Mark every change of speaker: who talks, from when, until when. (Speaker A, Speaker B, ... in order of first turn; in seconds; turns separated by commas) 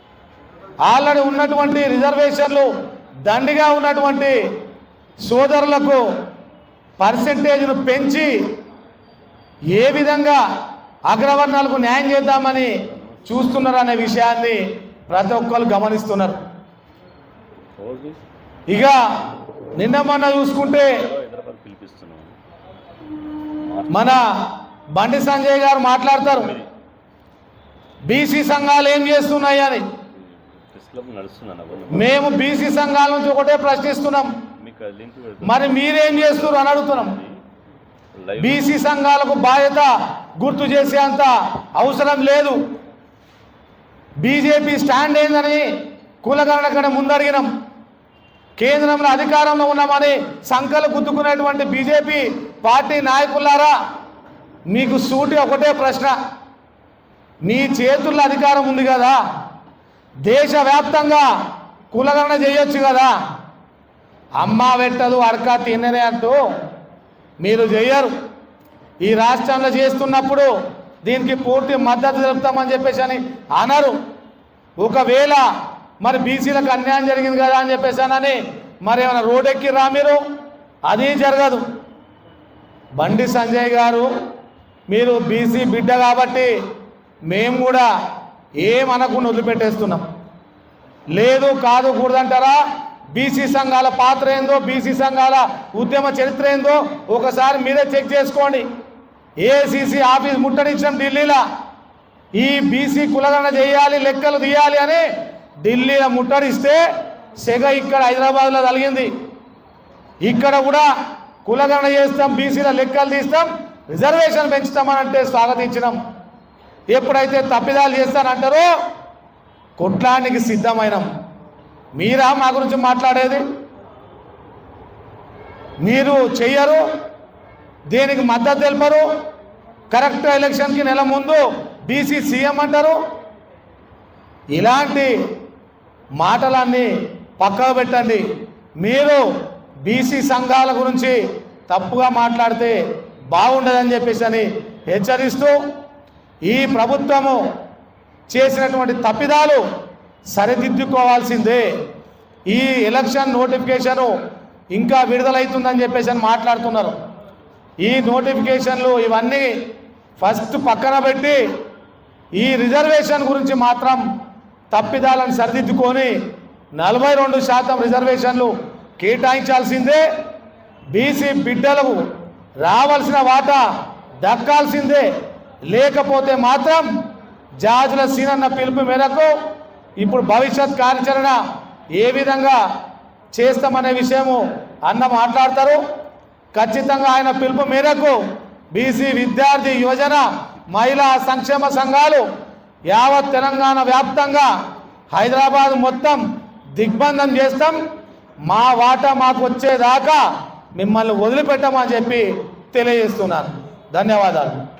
Speaker A: 0.9-2.7, Speaker A: 3.3-4.4, Speaker A: 5.2-6.0, Speaker A: 7.0-8.5, Speaker A: 9.7-10.4, Speaker A: 11.1-16.4, Speaker B: 17.8-18.2, Speaker A: 18.7-19.0, Speaker A: 19.8-21.0, Speaker B: 20.9-22.3, Speaker B: 23.7-24.0, Speaker A: 23.9-24.2, Speaker A: 24.9-26.5, Speaker B: 26.4-26.7, Speaker A: 28.1-29.8, Speaker B: 30.7-32.2, Speaker A: 31.9-34.3, Speaker B: 34.6-37.4, Speaker A: 35.4-37.2, Speaker B: 38.2-38.8, Speaker A: 38.4-42.6, Speaker A: 44.2-45.7, Speaker A: 46.2-47.5, Speaker A: 48.6-53.8, Speaker A: 54.7-56.1, Speaker A: 57.4-59.2, Speaker A: 60.2-61.3, Speaker A: 61.9-63.2, Speaker A: 64.4-66.4, Speaker A: 67.4-68.1, Speaker A: 69.0-70.5, Speaker A: 71.0-74.0, Speaker A: 74.8-75.4, Speaker A: 76.0-80.2, Speaker A: 80.9-81.6, Speaker A: 83.0-84.1, Speaker A: 84.9-86.5, Speaker A: 87.3-87.9, Speaker A: 88.6-90.0, Speaker A: 91.1-92.6, Speaker A: 93.1-98.7, Speaker A: 99.4-101.4, Speaker A: 102.3-105.0, Speaker A: 105.6-109.1, Speaker A: 110.2-110.9, Speaker A: 111.4-116.0, Speaker A: 116.9-118.7, Speaker A: 119.8-121.1, Speaker A: 121.9-123.4, Speaker A: 125.8-126.8, Speaker A: 127.9-129.1, Speaker A: 129.9-133.0, Speaker A: 134.6-135.1, Speaker A: 136.2-138.2, Speaker A: 138.8-139.2, Speaker A: 139.8-141.2, Speaker A: 141.7-142.8, Speaker A: 143.3-145.6, Speaker A: 146.4-147.4, Speaker A: 148.3-149.6, Speaker A: 150.3-151.7, Speaker A: 152.5-154.1, Speaker A: 154.7-156.9, Speaker A: 157.8-159.5, Speaker A: 160.2-161.4, Speaker A: 162.3-164.0, Speaker A: 164.7-166.1, Speaker A: 166.8-170.0, Speaker A: 170.9-172.0, Speaker A: 172.6-173.6, Speaker A: 174.2-175.1, Speaker A: 175.7-176.9, Speaker A: 177.6-179.3, Speaker A: 180.0-181.4, Speaker A: 181.9-182.6, Speaker A: 183.3-185.8, Speaker A: 186.5-188.2, Speaker A: 188.7-192.2, Speaker A: 192.9-194.5, Speaker A: 195.1-196.2, Speaker A: 196.8-197.8, Speaker A: 198.5-200.2, Speaker A: 200.7-204.6